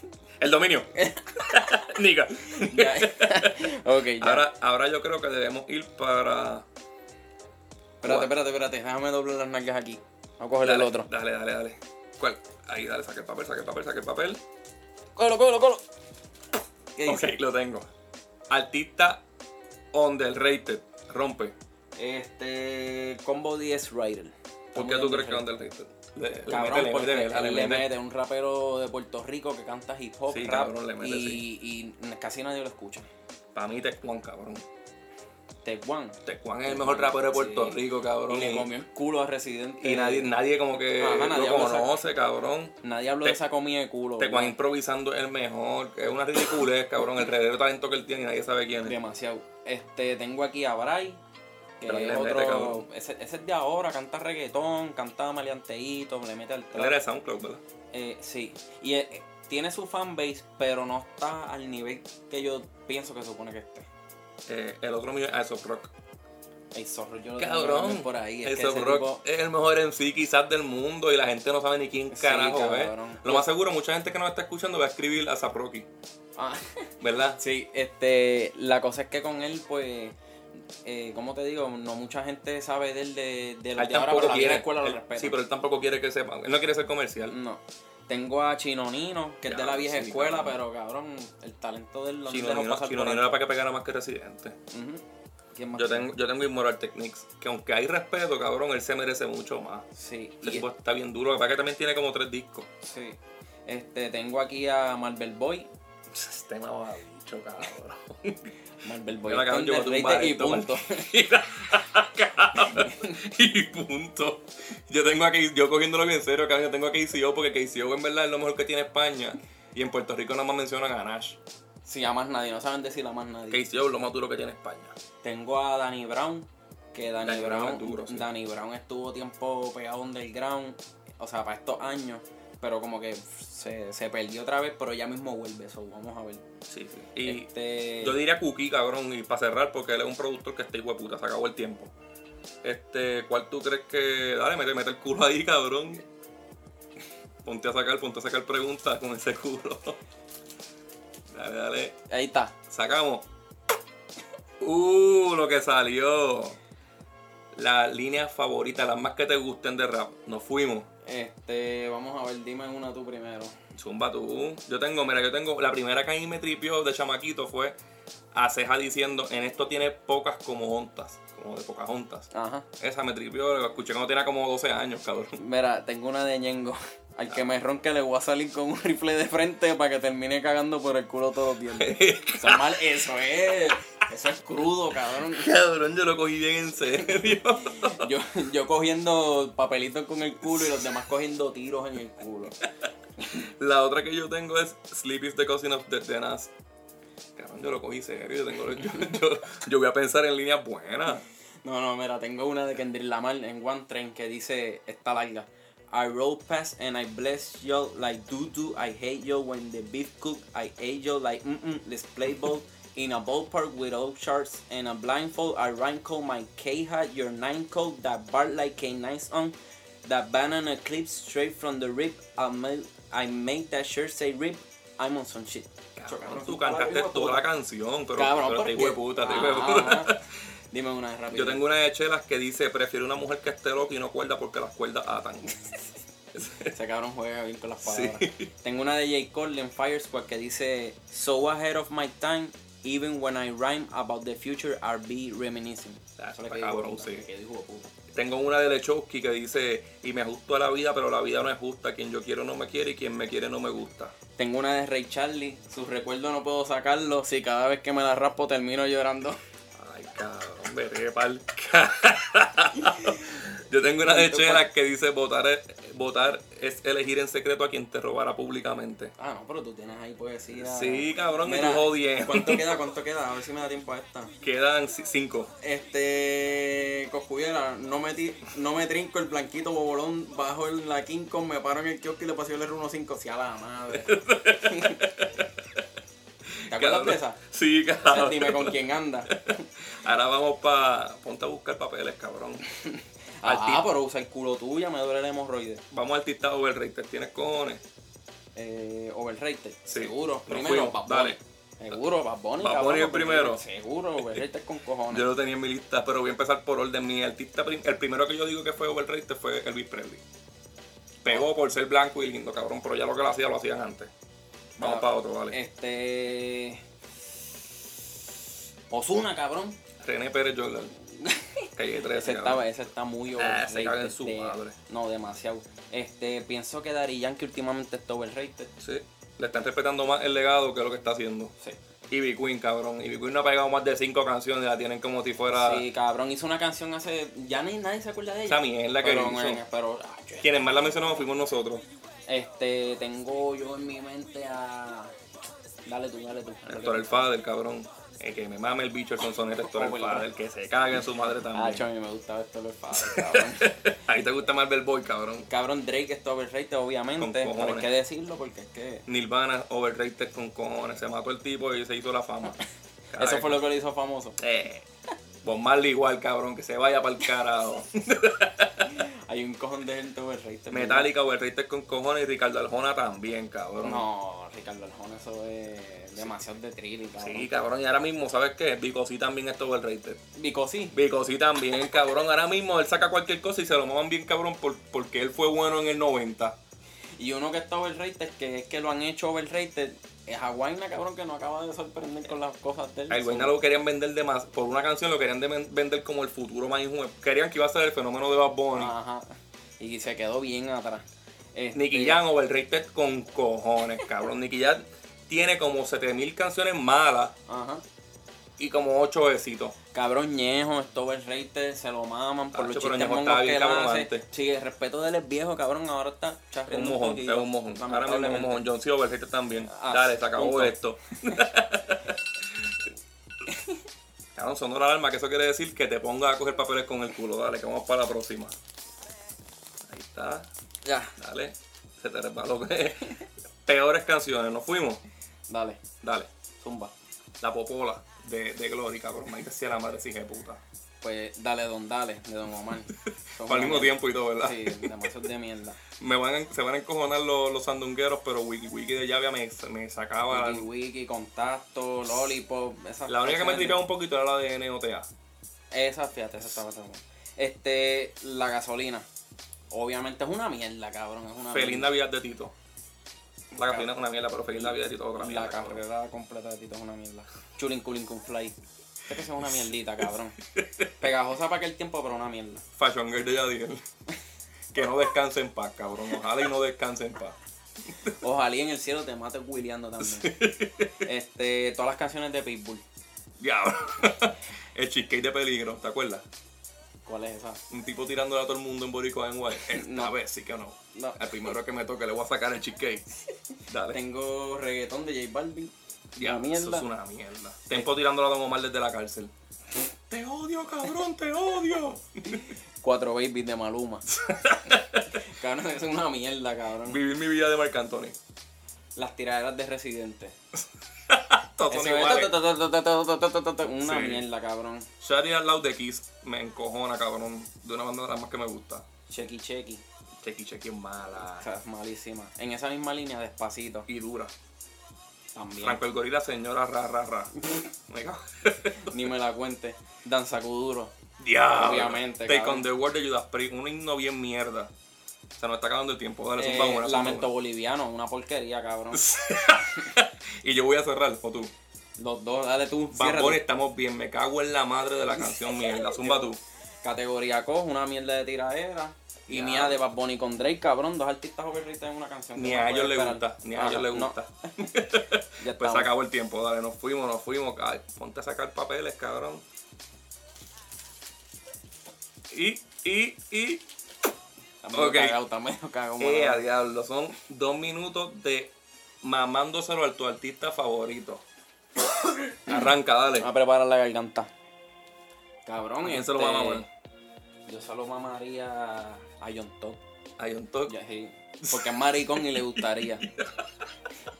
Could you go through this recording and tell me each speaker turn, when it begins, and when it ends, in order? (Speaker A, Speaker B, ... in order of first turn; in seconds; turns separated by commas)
Speaker A: 0.4-6.7, Speaker B: 1.0-1.8, Speaker B: 2.4-4.5, Speaker B: 8.0-11.1, Speaker A: 8.0-8.3, Speaker A: 10.6-14.4, Speaker B: 15.2-15.8, Speaker B: 16.9-17.4, Speaker A: 17.1-17.9, Speaker A: 18.5-19.2, Speaker A: 19.9-21.6, Speaker B: 21.9-25.5, Speaker A: 24.7-27.9, Speaker B: 26.5-33.1, Speaker A: 30.3-31.4, Speaker A: 33.5-34.6, Speaker B: 35.6-40.3, Speaker A: 36.2-38.7, Speaker A: 39.8-43.4, Speaker B: 41.0-41.9, Speaker B: 42.8-44.5, Speaker A: 44.2-49.0, Speaker B: 48.8-51.2, Speaker B: 51.8-57.0, Speaker A: 51.8-52.8, Speaker A: 56.7-57.6, Speaker B: 57.9-63.9, Speaker A: 64.5-65.9, Speaker B: 66.7-69.2, Speaker A: 67.4-75.9, Speaker B: 72.1-73.5, Speaker B: 76.4-80.2, Speaker A: 77.0-77.4, Speaker B: 80.8-85.4, Speaker A: 83.8-87.4, Speaker B: 87.3-93.4, Speaker A: 89.5-90.6, Speaker A: 92.3-94.6, Speaker B: 94.7-95.0, Speaker B: 95.5-96.1, Speaker A: 95.8-99.9, Speaker B: 99.9-100.7, Speaker A: 100.4-102.7, Speaker B: 102.8-105.7, Speaker A: 106.1-108.5, Speaker B: 108.8-111.1, Speaker A: 109.2-121.4, Speaker B: 112.6-113.2, Speaker B: 121.8-123.6, Speaker A: 123.5-125.0, Speaker B: 125.2-136.4, Speaker A: 127.2-128.3, Speaker A: 136.7-141.9, Speaker B: 137.2-138.2, Speaker A: 142.6-146.1, Speaker A: 147.4-150.0, Speaker A: 151.3-151.9, Speaker B: 152.1-152.5, Speaker A: 152.7-153.2, Speaker A: 154.6-156.6, Speaker A: 157.5-160.9, Speaker B: 161.0-163.5, Speaker A: 163.8-167.8, Speaker A: 168.3-175.4, Speaker B: 172.3-172.7, Speaker B: 175.4-185.5, Speaker A: 181.7-182.8, Speaker A: 185.2-188.1, Speaker B: 187.1-192.6, Speaker A: 193.3-196.5, Speaker A: 197.3-201.2, Speaker B: 201.6-227.4, Speaker A: 225.9-230.2, Speaker B: 228.1-230.2, Speaker B: 230.7-231.6, Speaker A: 231.3-235.6, Speaker A: 236.3-236.7, Speaker B: 236.7-247.9, Speaker A: 237.8-238.5, Speaker A: 246.2-247.2, Speaker A: 248.1-254.1, Speaker B: 254.4-259.4, Speaker A: 259.7-269.1, Speaker B: 262.9-263.1, Speaker B: 264.0-264.6, Speaker B: 269.2-274.3, Speaker A: 270.5-272.8, Speaker A: 274.4-275.5, Speaker B: 275.6-285.0, Speaker A: 283.9-285.8, Speaker A: 286.6-292.6, Speaker B: 286.7-287.4, Speaker B: 288.1-289.6, Speaker B: 292.7-295.8, Speaker A: 293.4-293.9, Speaker A: 295.9-297.8, Speaker B: 298.6-305.2, Speaker A: 299.9-301.4, Speaker A: 302.6-303.6, Speaker A: 304.2-304.4, Speaker A: 305.1-310.2, Speaker A: 311.2-314.1, Speaker A: 314.8-315.6, Speaker B: 314.8-316.8, Speaker B: 318.9-319.8, Speaker A: 320.0-320.9, Speaker B: 321.1-328.7, Speaker A: 321.7-322.7, Speaker A: 323.4-324.8, Speaker A: 328.8-331.5, Speaker A: 332.1-335.8, Speaker B: 335.5-340.6, Speaker A: 338.5-339.6, Speaker A: 340.4-341.8, Speaker B: 342.3-345.1, Speaker B: 345.9-347.2, Speaker A: 346.6-351.9, Speaker B: 349.6-350.3, Speaker B: 351.5-353.8, Speaker A: 353.0-355.5, Speaker B: 355.5-359.1, Speaker A: 357.2-357.9, Speaker A: 359.1-362.6, Speaker A: 363.1-363.6, Speaker B: 363.1-364.4, Speaker A: 364.4-364.9, Speaker A: 365.4-368.9, Speaker B: 368.9-371.1, Speaker A: 370.7-374.1, Speaker B: 373.8-377.5, Speaker A: 377.2-380.2, Speaker B: 380.3-381.0, Speaker A: 380.9-386.6, Speaker B: 387.2-393.5, Speaker A: 393.1-398.9, Speaker B: 398.7-402.2, Speaker A: 401.7-407.3, Speaker B: 407.5-407.8, Speaker A: 408.6-409.7, Speaker B: 409.9-418.6, Speaker A: 412.5-414.2, Speaker A: 416.7-422.6, Speaker B: 419.7-421.4, Speaker B: 423.5-423.8, Speaker A: 424.4-428.6, Speaker A: 429.8-430.5, Speaker B: 430.8-431.1, Speaker A: 431.2-435.0, Speaker B: 435.5-435.8, Speaker A: 436.0-436.3, Speaker B: 436.6-436.9, Speaker A: 437.4-440.6, Speaker B: 441.0-445.8, Speaker A: 443.4-445.1, Speaker A: 446.0-450.7, Speaker B: 450.3-453.8, Speaker A: 453.1-455.1, Speaker B: 455.7-459.1, Speaker B: 459.7-461.9, Speaker A: 461.5-462.5, Speaker B: 463.5-463.9, Speaker A: 463.6-465.8, Speaker B: 465.1-468.6, Speaker B: 469.1-470.4, Speaker A: 470.5-470.9, Speaker B: 471.0-472.6, Speaker A: 472.8-473.8, Speaker A: 474.7-477.4, Speaker B: 478.2-480.4, Speaker A: 480.0-481.1, Speaker B: 481.0-482.8, Speaker A: 483.4-486.2, Speaker B: 487.1-487.6, Speaker A: 487.7-493.1, Speaker B: 489.6-490.1, Speaker B: 490.9-491.5, Speaker A: 493.7-494.0, Speaker B: 493.9-496.9, Speaker A: 496.1-499.3, Speaker A: 500.1-502.5, Speaker B: 502.8-504.1, Speaker A: 504.1-505.2, Speaker B: 505.1-507.0, Speaker A: 506.8-508.2, Speaker B: 508.9-510.3, Speaker A: 511.1-512.3, Speaker B: 511.7-514.9, Speaker A: 513.8-514.2, Speaker A: 515.0-518.9, Speaker B: 519.1-519.8, Speaker A: 520.2-521.5, Speaker B: 521.3-523.9, Speaker A: 523.9-524.3, Speaker B: 525.3-525.8, Speaker A: 525.6-529.1, Speaker B: 528.8-530.9, Speaker A: 531.2-534.7, Speaker B: 531.5-532.7, Speaker A: 535.4-537.3, Speaker B: 536.4-539.1, Speaker A: 538.9-541.5, Speaker B: 542.0-543.4, Speaker A: 542.9-546.4, Speaker B: 545.2-554.7, Speaker A: 549.3-549.8, Speaker A: 552.4-559.4, Speaker B: 555.4-555.9, Speaker A: 562.3-563.6, Speaker B: 564.6-566.4, Speaker A: 564.7-565.2, Speaker A: 566.0-571.2, Speaker A: 572.5-573.3, Speaker B: 573.2-574.3, Speaker B: 575.5-576.7, Speaker A: 575.8-576.7, Speaker B: 577.5-579.8, Speaker A: 580.2-580.7, Speaker B: 580.7-583.1, Speaker A: 581.4-583.5